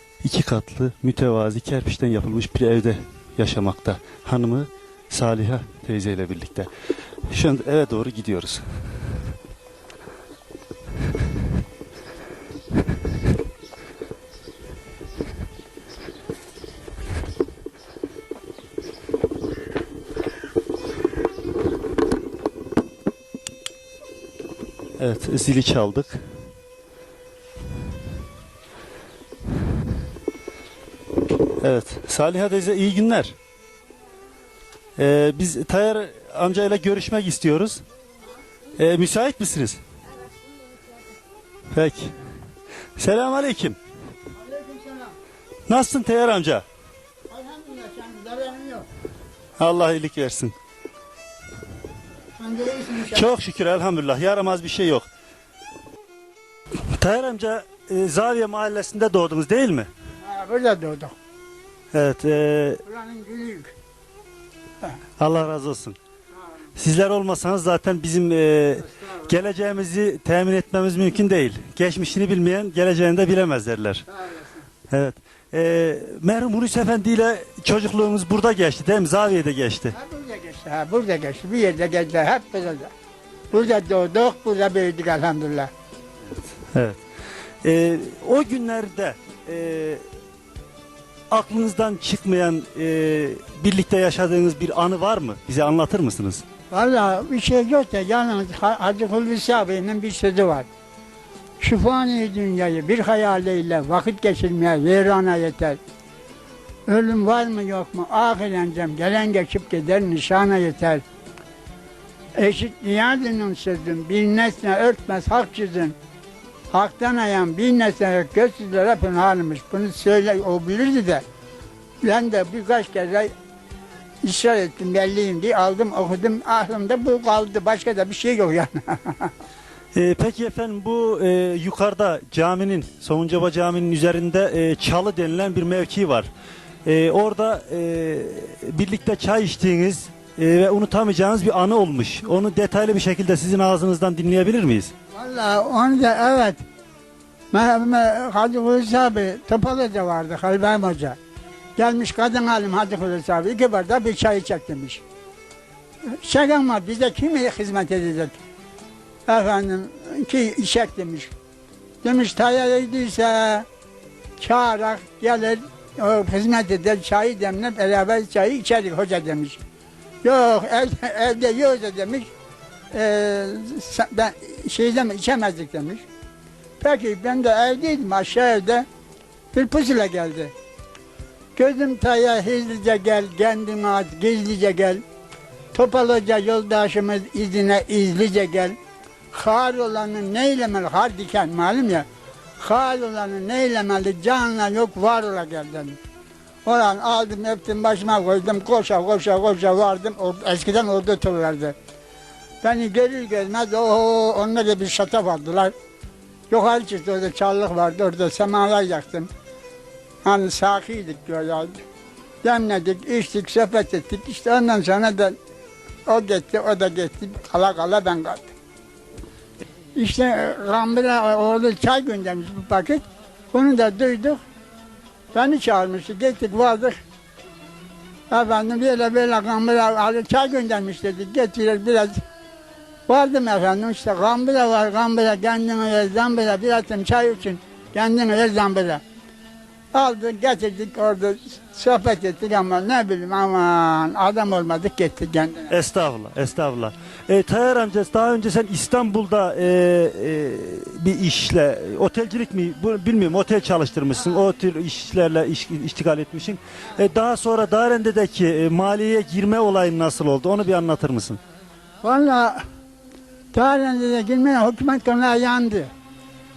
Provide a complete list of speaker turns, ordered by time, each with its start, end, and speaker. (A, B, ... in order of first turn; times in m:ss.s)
0:00.2-0:06.7 A
0:07.3-0:08.6 A
0:25.0-0:26.2 A
0:31.6-0:33.4 A
0:35.0-0:37.8 A
0:38.8-0:39.8 A
0:41.7-0:42.2 A
0:43.0-0:43.8 A
0:44.4-0:45.1 B
0:45.7-0:46.6 A
0:47.3-0:48.9 B
0:49.6-0:50.6 A
0:52.4-0:53.3 B
0:53.1-0:55.1 A
0:56.9-0:59.9 A
1:00.2-1:01.2 B
1:01.9-1:02.8 A
1:02.8-1:03.7 B
1:05.2-1:06.0 A
1:06.8-1:14.0 A
1:14.1-1:14.6 B
1:14.9-1:20.0 A
1:19.9-1:22.9 B
1:23.5-1:25.7 B
1:26.4-1:27.0 A
1:27.6-1:30.0 A
1:31.3-1:36.4 A
1:36.7-1:40.7 B
1:41.6-1:45.8 B
1:46.9-1:51.0 B
1:52.4-1:56.0 B
1:56.7-2:01.2 B
2:02.0-2:03.3 B
2:04.2-2:09.3 B
2:09.9-2:16.3 A
2:16.8-2:24.9 A
2:25.1-2:26.6 B
2:27.5-2:31.2 B
2:31.8-2:35.0 B
2:36.2-2:38.4 B
2:39.3-2:41.3 B
2:42.0-2:43.7 B
2:44.4-2:49.6 B
2:50.2-2:52.3 B
2:52.9-2:56.0 B
2:56.8-2:58.9 B
2:59.5-3:00.5 B
3:01.6-3:05.0 B
3:05.7-3:08.8 B
3:09.3-3:12.1 B
3:12.6-3:16.0 B
3:16.6-3:21.8 B
3:22.6-3:25.8 B
3:26.5-3:29.3 B
3:30.2-3:31.8 B
3:32.4-3:35.4 B
3:36.1-3:38.5 B
3:40.0-3:44.4 B
3:45.3-3:47.0 B
3:48.3-3:52.2 B
3:53.1-3:59.0 B
3:59.9-4:05.7 B
4:05.7-4:21.4 A
4:22.0-4:22.6 B
4:23.5-4:25.9 B